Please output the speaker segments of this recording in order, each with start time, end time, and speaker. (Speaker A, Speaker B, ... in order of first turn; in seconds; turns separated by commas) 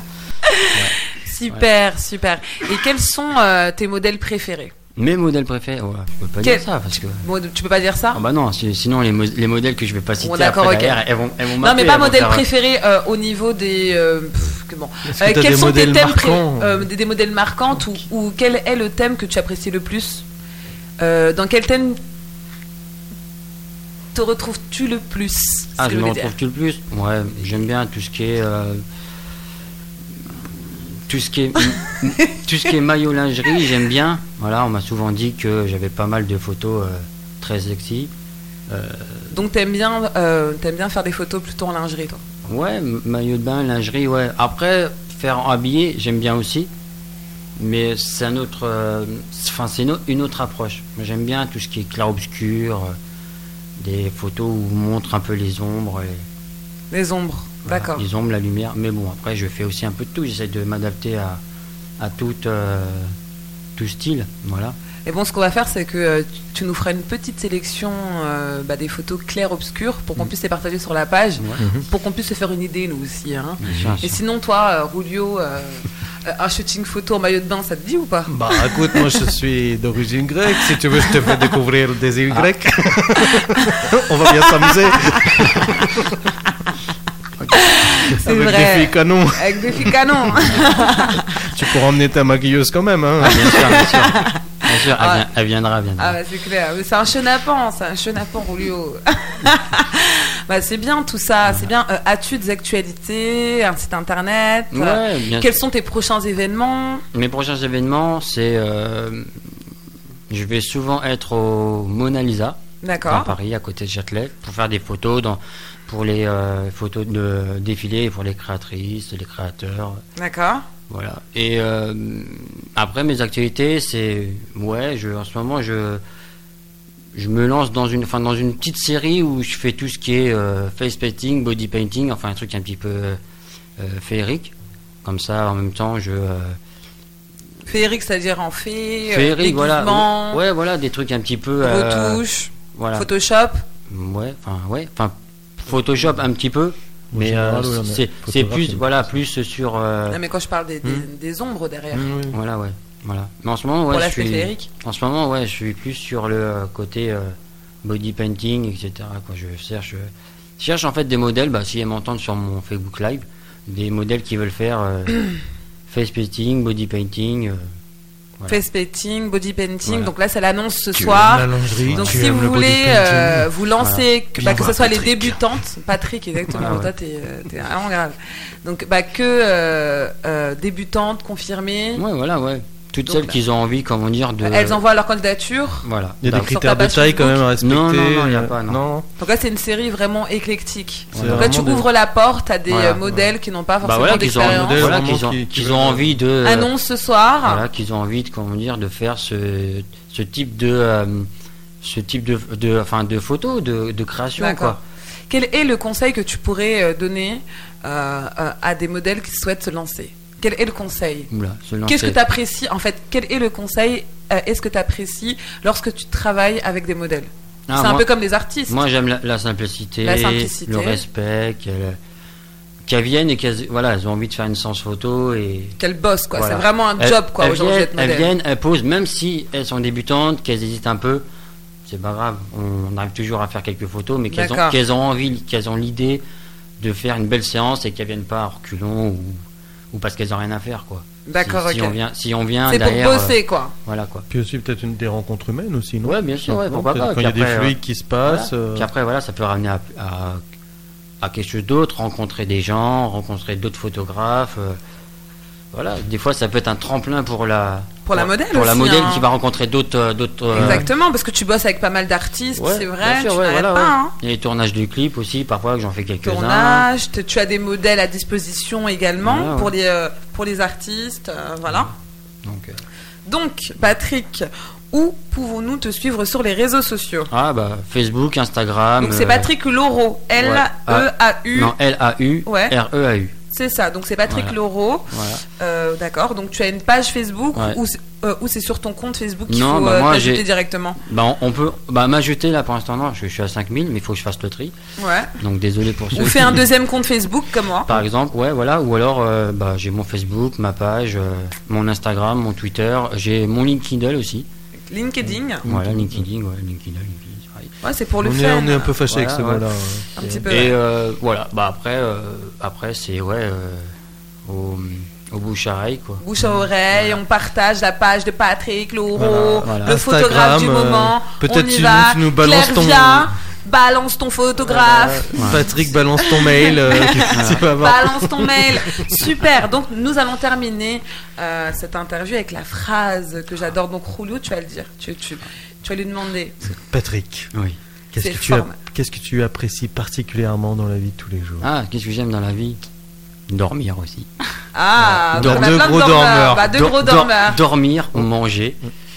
Speaker A: 0.5-4.7, Speaker B: 0.7-1.0, Speaker B: 5.0-7.2, Speaker A: 6.4-8.2, Speaker B: 8.1-12.4, Speaker A: 10.2-11.0, Speaker A: 11.6-20.2, Speaker C: 15.1-16.9, Speaker A: 21.0-22.0, Speaker A: 24.1-26.3, Speaker B: 25.8-28.8, Speaker B: 30.4-38.1, Speaker A: 31.6-32.4, Speaker B: 38.7-39.4, Speaker A: 39.3-42.2, Speaker B: 42.5-46.7, Speaker B: 47.5-53.0, Speaker B: 53.8-56.2, Speaker A: 56.9-58.0, Speaker B: 57.6-61.4, Speaker B: 62.0-63.1, Speaker B: 63.8-64.8, Speaker A: 65.0-79.1, Speaker C: 71.6-71.8, Speaker B: 73.6-74.2, Speaker C: 73.7-74.0, Speaker C: 78.3-86.2, Speaker A: 87.5-91.4, Speaker C: 88.2-90.6, Speaker C: 91.3-93.8, Speaker B: 93.2-96.2, Speaker A: 93.3-95.3, Speaker A: 96.0-107.0, Speaker B: 104.7-105.6, Speaker B: 107.1-109.5, Speaker B: 110.3-120.0, Speaker A: 112.8-113.3, Speaker A: 120.2-120.7, Speaker B: 120.9-126.0, Speaker B: 127.1-133.2, Speaker B: 133.8-136.6, Speaker A: 137.7-140.4, Speaker B: 139.1-143.1, Speaker A: 141.6-143.6, Speaker B: 143.9-150.2, Speaker C: 147.1-149.2, Speaker A: 150.1-152.1, Speaker C: 151.9-152.4, Speaker B: 152.3-165.3, Speaker A: 153.9-154.7, Speaker B: 165.9-167.7, Speaker A: 168.5-182.0, Speaker B: 169.8-170.1, Speaker C: 170.9-173.5, Speaker B: 171.8-172.2, Speaker B: 173.8-174.0, Speaker C: 174.3-175.6, Speaker B: 176.5-176.9, Speaker B: 181.9-184.8, Speaker A: 183.0-183.4, Speaker A: 184.4-187.4, Speaker B: 185.8-186.7, Speaker C: 186.2-189.1, Speaker B: 187.6-188.8, Speaker A: 189.2-195.0, Speaker B: 191.1-191.6, Speaker C: 191.1-191.9, Speaker B: 192.7-193.0, Speaker B: 193.8-196.7, Speaker C: 194.1-196.1, Speaker A: 196.4-197.6, Speaker B: 197.4-201.3, Speaker B: 201.8-204.8, Speaker A: 204.4-204.8, Speaker A: 205.3-211.3, Speaker B: 211.3-212.2, Speaker A: 211.9-218.8, Speaker B: 217.7-218.1, Speaker B: 218.7-222.0, Speaker A: 220.0-221.0, Speaker B: 222.8-225.8, Speaker A: 225.8-228.3, Speaker B: 226.3-231.2, Speaker B: 231.8-236.2, Speaker A: 234.3-234.8, Speaker B: 236.8-239.4, Speaker B: 239.9-244.2, Speaker A: 241.3-242.0, Speaker A: 242.7-243.7, Speaker C: 244.3-248.9, Speaker B: 246.0-250.4, Speaker B: 251.2-254.8, Speaker B: 255.7-260.9, Speaker A: 258.1-259.2, Speaker A: 260.5-264.1, Speaker C: 260.6-260.9, Speaker B: 262.6-266.9, Speaker A: 266.2-271.9, Speaker B: 269.2-269.7, Speaker B: 272.4-272.8, Speaker A: 273.2-277.3, Speaker B: 277.3-279.5, Speaker A: 279.0-281.7, Speaker B: 280.4-283.4, Speaker A: 282.4-282.7, Speaker A: 283.5-291.0, Speaker B: 284.3-284.6, Speaker B: 285.1-285.4, Speaker B: 287.5-287.8, Speaker B: 289.5-290.4, Speaker B: 291.0-294.7, Speaker A: 295.0-295.3, Speaker B: 295.4-296.6, Speaker A: 296.1-298.0, Speaker B: 297.9-304.5, Speaker A: 304.9-305.6, Speaker B: 305.6-307.7, Speaker C: 305.6-306.2, Speaker A: 307.8-308.9, Speaker C: 308.2-310.4, Speaker B: 309.1-309.6, Speaker A: 310.2-310.8, Speaker B: 310.2-313.9, Speaker B: 314.4-316.2, Speaker A: 316.2-325.6, Speaker B: 316.9-317.2, Speaker C: 319.1-323.3, Speaker B: 319.6-320.0, Speaker C: 324.6-329.4, Speaker A: 326.2-336.7, Speaker B: 327.3-327.7, Speaker C: 336.7-337.5, Speaker C: 338.1-341.7, Speaker A: 338.2-338.8, Speaker B: 341.6-342.8, Speaker B: 343.5-344.3, Speaker A: 344.7-347.6, Speaker C: 345.0-346.7, Speaker B: 345.4-345.9, Speaker B: 346.6-348.8